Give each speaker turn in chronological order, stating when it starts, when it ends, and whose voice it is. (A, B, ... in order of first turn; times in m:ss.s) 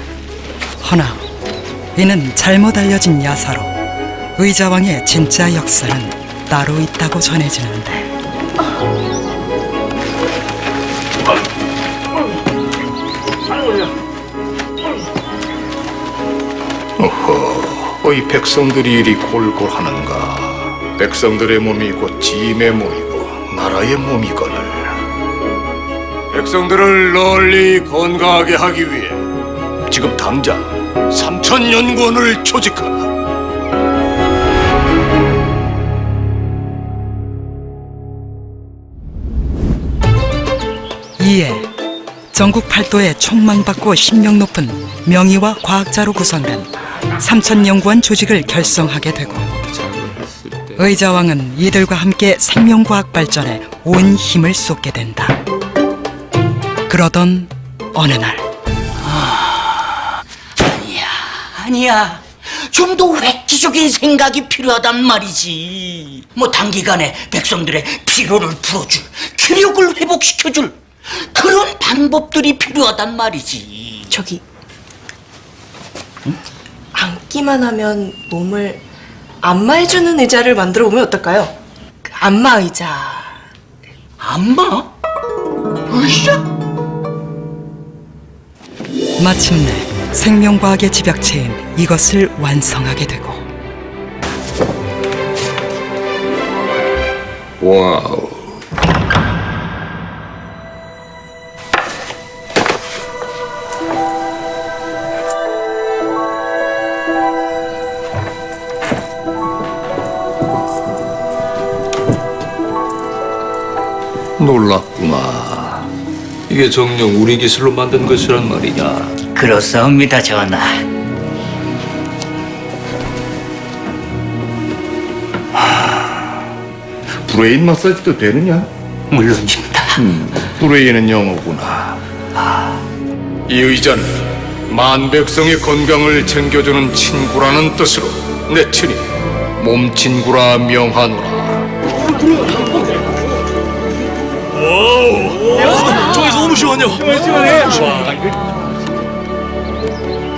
0:00.8-0:01.2 A
0:02.0-0:03.7 A
0:04.4-0:08.1 A
0:17.0-0:25.0 B
0:26.3-0:29.2 B
0:29.9-0:33.1 B
0:41.2-0:41.7 A
0:42.3-0:49.6 A
0:49.8-0:50.3 B
0:50.7-0:55.4 A
0:56.9-0:58.4 A
0:59.0-0:59.8 C
1:00.6-1:10.8 C
1:11.3-1:14.1 C
1:14.1-1:14.4 D
1:16.9-1:18.8 D
1:19.4-1:23.4 D
1:24.2-1:24.9 C
1:25.9-1:26.4 C
1:29.2-1:33.5 A
1:37.6-1:38.5 B
1:54.4-1:55.9 B
1:56.5-1:59.2 B
1:59.3-2:00.8 C
2:07.2-2:08.7 B
2:09.1-2:10.0 C
2:10.0-2:12.0 B
2:13.5-2:14.2 B
2:14.7-2:19.0 B
2:19.6-2:21.6 B
2:24.7-2:28.0 E